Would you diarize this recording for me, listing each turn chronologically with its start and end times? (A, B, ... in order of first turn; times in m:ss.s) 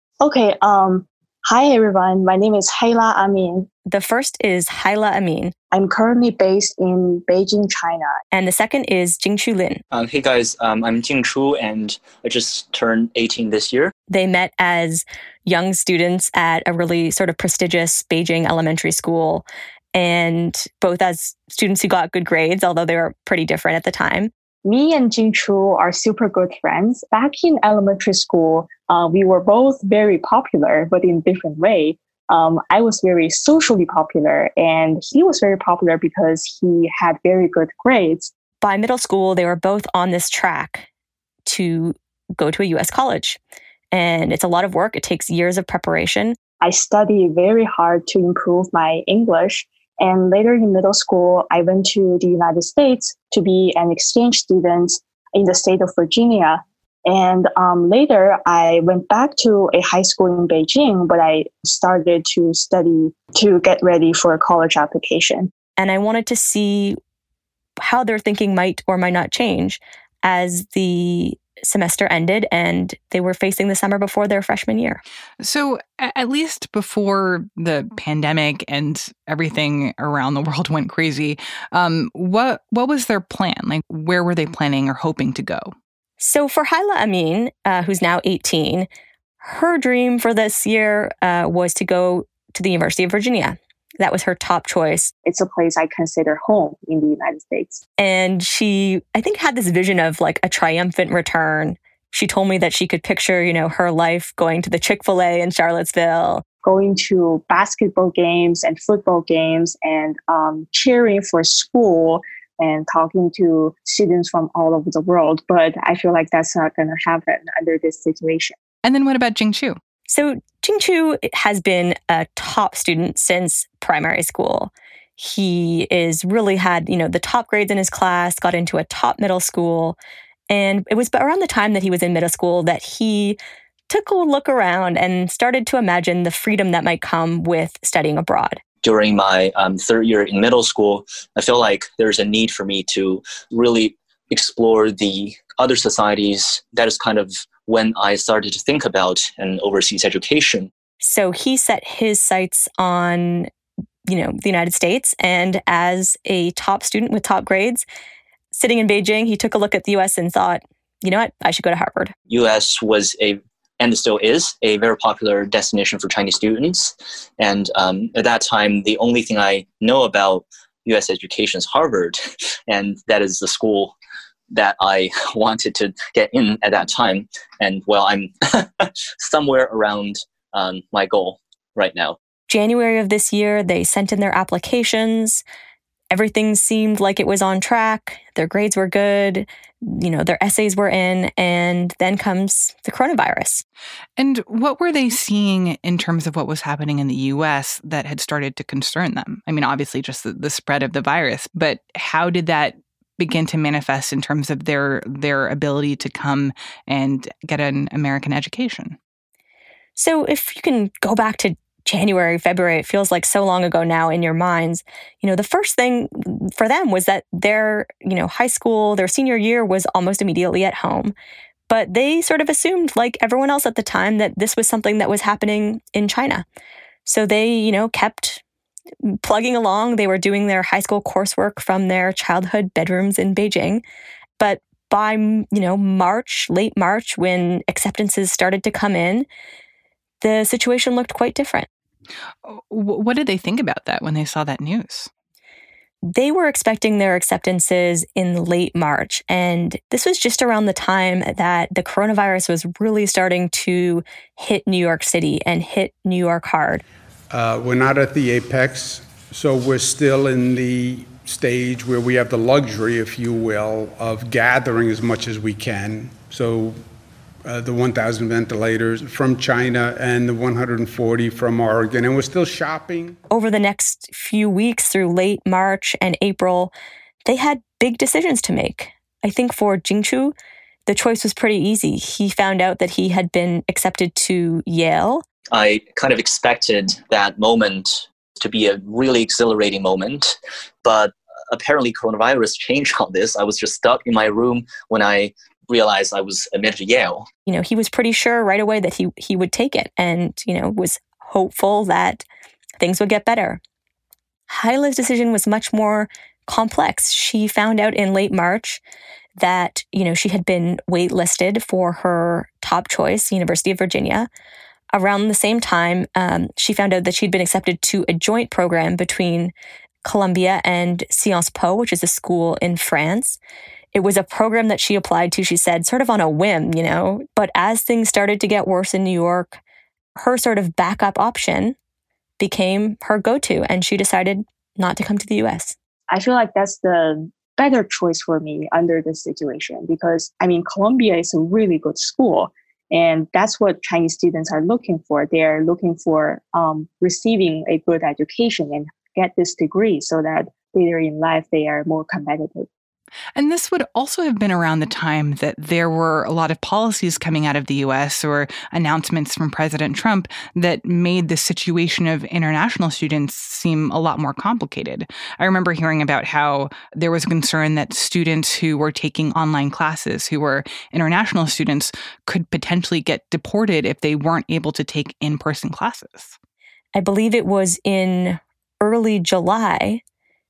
0:00.2-0:03.7 A
0:03.8-0:05.5 B
0:05.7-0:08.2 A
0:08.3-0:09.8 B
0:09.9-0:13.9 C
0:14.1-0:24.3 B
0:24.6-0:38.3 A
0:38.6-0:40.9 B
0:41.4-0:43.4 B
0:43.9-0:46.4 B
0:46.6-1:05.5 A
1:05.8-1:07.0 B
1:07.8-1:15.0 B
1:15.4-1:25.7 D
1:26.2-1:28.9 B
1:29.4-1:35.1 B
1:35.2-1:37.8 A
1:38.0-1:46.4 B
1:46.6-1:58.6 A
1:58.8-1:59.8 D
2:00.1-2:10.0 B
2:10.5-2:13.4 B
2:13.9-2:18.6 B
2:18.8-2:30.7 C
2:31.0-2:33.5 B
2:34.0-2:37.8 B
2:38.5-2:42.1 B
2:42.3-2:53.9 C
2:54.5-3:02.2 C
3:02.5-3:05.4 B
3:06.1-3:13.6 B
3:14.2-3:29.0 D
3:30.0-3:41.1 B
3:41.7-3:46.4 B
3:47.0-3:48.4 B
3:49.0-3:53.8 B
3:54.4-3:59.3 B
4:00.2-4:01.7 B
4:02.4-4:05.1 D
4:06.0-4:16.8 B
4:17.3-4:26.8 E
4:27.4-4:33.2 E
4:33.3-4:36.7 B
4:37.2-4:40.3 B
4:40.9-4:45.2 B
4:45.5-4:57.2 C
4:57.4-5:02.2 B
5:02.8-5:03.6 B
5:04.5-5:08.8 B
5:09.4-5:14.3 B
5:14.9-5:23.4 B
5:23.9-5:29.6 B
5:30.1-5:31.8 B
5:32.4-5:35.7 B
5:36.1-5:52.7 A
5:53.4-6:16.4 D
6:16.9-6:20.0 B